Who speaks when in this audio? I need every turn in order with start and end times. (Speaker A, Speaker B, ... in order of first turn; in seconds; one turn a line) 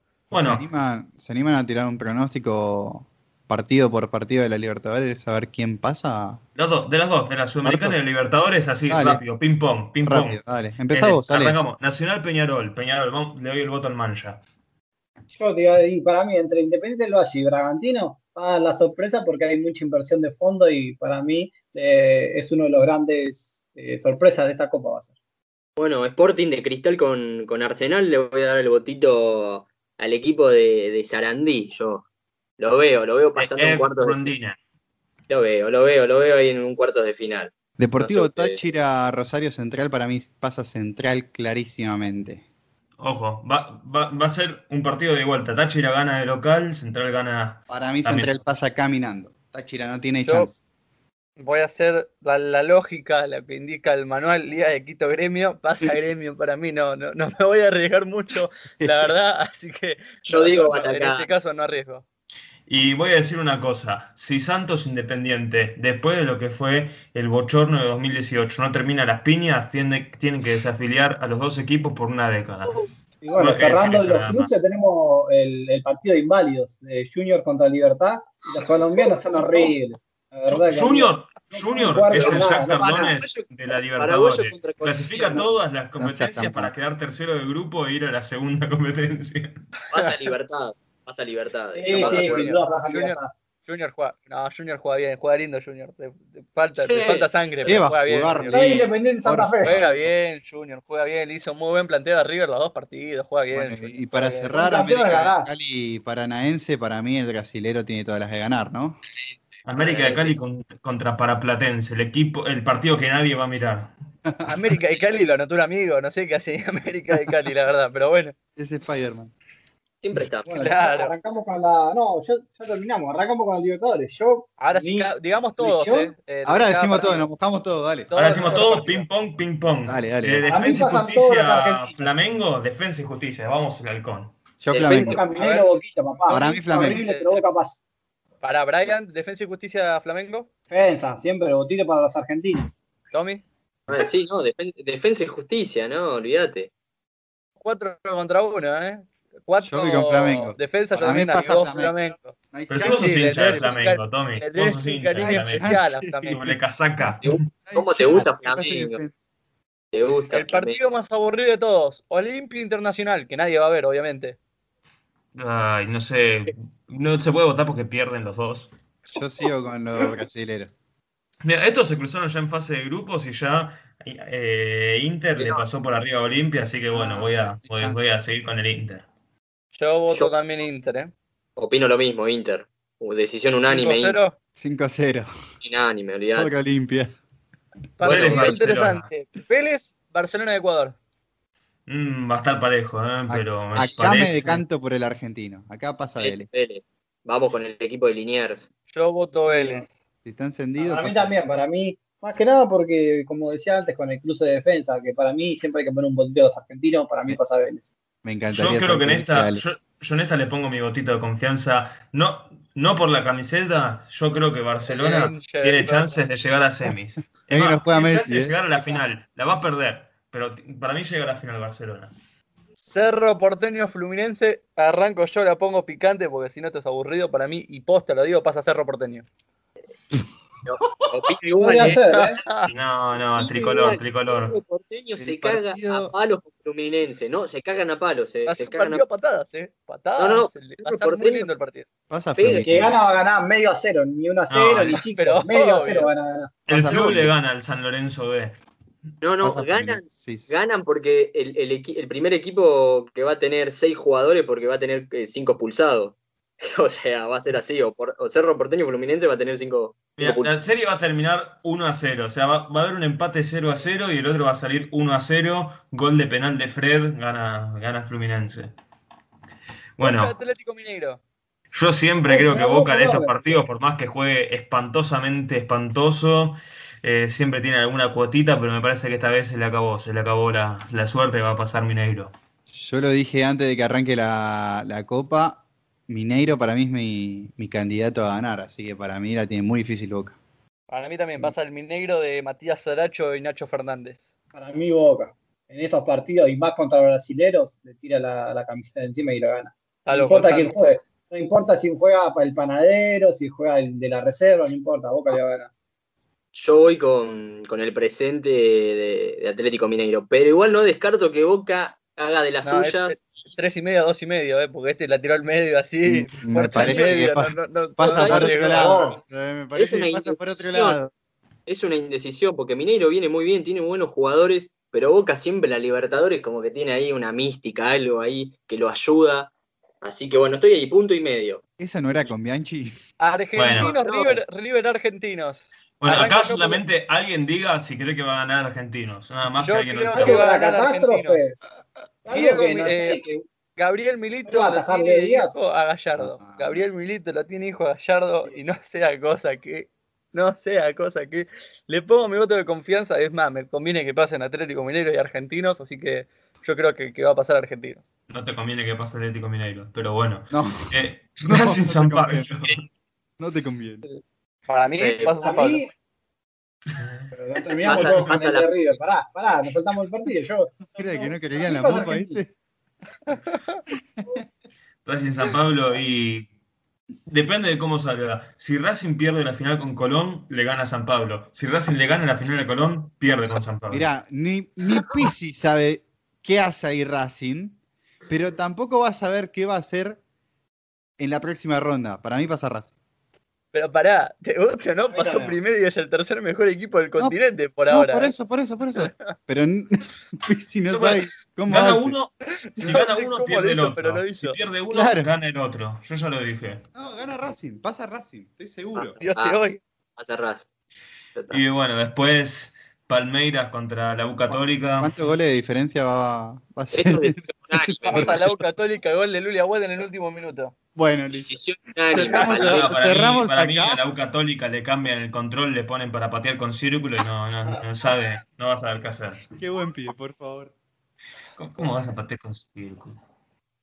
Speaker A: 0.3-6.4
Speaker B: 0.3-0.7
Speaker B: 6.6-14.4
Speaker A: 7.6-8.0
Speaker A: 8.9-9.2
Speaker A: 10.0-11.6
Speaker C: 15.3-25.1
Speaker D: 25.8-32.1
Speaker D: 32.6-34.3
Speaker B: 33.4-34.6
Speaker D: 35.3-38.6
Speaker A: 37.8-42.4
Speaker B: 43.0-48.4
Speaker A: 47.7-50.6
Speaker E: 50.2-50.5
Speaker E: 51.4-62.0
Speaker A: 58.8-59.1
Speaker D: 60.3-61.3
Speaker B: 62.7-72.8
Speaker C: 73.2-83.1
Speaker B: 73.3-74.6
Speaker B: 80.5-89.6
Speaker D: 82.2-85.5
Speaker A: 86.0-86.7
Speaker D: 89.9-92.5
Speaker E: 89.9-90.3
Speaker C: 91.7-93.3
Speaker E: 91.9-98.6
Speaker D: 96.8-97.3
Speaker A: 97.7-100.1
Speaker C: 98.5-99.8
Speaker E: 99.6-104.5
Speaker A: 103.5-109.0
Speaker C: 104.5-105.5
Speaker B: 109.7-113.9
Speaker D: 109.7-110.3
Speaker E: 114.5-118.3
Speaker A: 118.6-119.3
Speaker D: 120.0-120.5
Speaker C: 120.5-126.1
Speaker E: 120.6-121.1
Speaker E: 124.6-127.3
Speaker A: 126.5-128.1
Speaker E: 128.1-129.1
Speaker B: 128.1-134.3
Speaker A: 129.9-130.4
Speaker C: 130.4-132.1
Speaker A: 134.6-135.2
Speaker D: 134.7-135.2
Speaker C: 134.8-137.8
Speaker E: 135.3-135.7
Speaker E: 136.3-137.4
Speaker A: 136.3-137.0
Speaker E: 138.4-140.5
Speaker C: 140.7-142.7
Speaker E: 143.1-143.4
Speaker D: 143.9-146.7
Speaker E: 147.6-156.4
Speaker A: 149.6-151.9
Speaker A: 152.5-153.8
Speaker B: 152.7-157.4
Speaker A: 155.2-159.2
Speaker D: 157.2-159.0
Speaker D: 159.9-160.8
Speaker E: 160.3-164.4
Speaker B: 165.3-168.7
Speaker A: 169.1-170.7
Speaker B: 171.4-179.1
Speaker D: 175.4-175.7
Speaker A: 176.9-178.0
Speaker E: 179.8-181.1
Speaker D: 181.6-184.2
Speaker E: 183.7-184.3
Speaker A: 184.6-185.3
Speaker D: 185.6-186.5
Speaker A: 186.3-187.1
Speaker E: 188.0-191.0
Speaker D: 188.0-188.7
Speaker B: 188.1-189.1
Speaker B: 191.9-194.6
Speaker A: 193.3-196.5
Speaker D: 196.2-198.7
Speaker E: 198.9-199.9
Speaker C: 199.5-199.8
Speaker A: 200.2-201.3
Speaker C: 200.8-207.9
Speaker A: 208.2-209.6
Speaker B: 208.5-222.1
Speaker E: 214.9-216.2
Speaker A: 217.5-219.0
Speaker E: 222.8-229.3
Speaker D: 230.7-232.0
Speaker C: 231.6-232.4
Speaker E: 231.8-232.7
Speaker B: 232.7-234.6
Speaker D: 233.4-239.0
Speaker A: 235.2-236.1
Speaker E: 238.5-241.9
Speaker D: 240.2-241.5
Speaker A: 242.1-243.0
Speaker D: 242.4-242.9
Speaker C: 242.6-246.5
Speaker B: 244.5-245.0
Speaker E: 244.9-246.1
Speaker B: 246.7-248.6
Speaker A: 246.7-247.3
Speaker D: 249.2-260.5
Speaker A: 249.4-250.6
Speaker B: 260.2-268.7
Speaker B: 270.0-270.4
Speaker E: 270.0-271.2
Speaker B: 271.7-282.3
Speaker C: 272.3-273.6
Speaker A: 282.7-290.4
Speaker E: 290.9-294.3
Speaker C: 294.6-305.7
Speaker E: 300.1-300.8
Speaker D: 306.5-313.2
Speaker E: 312.6-319.1
Speaker A: 316.0-321.1
Speaker D: 316.8-317.2
Speaker D: 318.0-318.7
Speaker C: 318.6-319.2
Speaker D: 319.8-321.0
Speaker D: 321.7-331.6
Speaker A: 331.8-333.0
Speaker E: 333.2-336.8
Speaker B: 333.6-333.9
Speaker D: 333.8-334.4
Speaker B: 336.0-340.4
Speaker E: 339.6-341.4
Speaker C: 340.1-341.6
Speaker C: 342.2-343.4
Speaker E: 342.3-343.2
Speaker E: 343.8-358.0
Speaker C: 344.5-345.6
Speaker A: 346.1-346.8
Speaker B: 358.3-362.8
Speaker A: 360.5-361.0
Speaker A: 361.5-362.6
Speaker A: 363.4-364.1
Speaker E: 364.1-365.8
Speaker D: 365.0-365.4
Speaker C: 365.4-365.9
Speaker B: 366.9-367.3
Speaker C: 367.3-372.4
Speaker D: 367.8-369.0
Speaker B: 367.9-368.1
Speaker A: 370.9-372.5
Speaker E: 373.3-373.8
Speaker A: 374.2-374.5
Speaker B: 375.1-376.5
Speaker B: 377.3-384.1
Speaker A: 383.9-387.8
Speaker A: 388.3-390.2
Speaker A: 391.2-392.9
Speaker E: 393.7-398.3
Speaker C: 395.1-395.6
Speaker A: 397.2-402.2
Speaker E: 398.9-399.3
Speaker B: 400.9-406.8
Speaker E: 402.6-404.6
Speaker A: 404.9-405.3
Speaker A: 406.9-409.2
Speaker D: 408.9-409.6
Speaker E: 409.2-409.8
Speaker D: 410.2-410.7
Speaker D: 411.4-411.6
Speaker B: 411.5-415.2
Speaker A: 414.5-418.4
Speaker D: 416.9-418.4
Speaker E: 418.1-420.7
Speaker A: 421.0-421.5
Speaker D: 421.3-422.9
Speaker A: 422.1-424.0
Speaker B: 422.5-429.4
Speaker A: 429.6-430.7
Speaker B: 431.6-433.2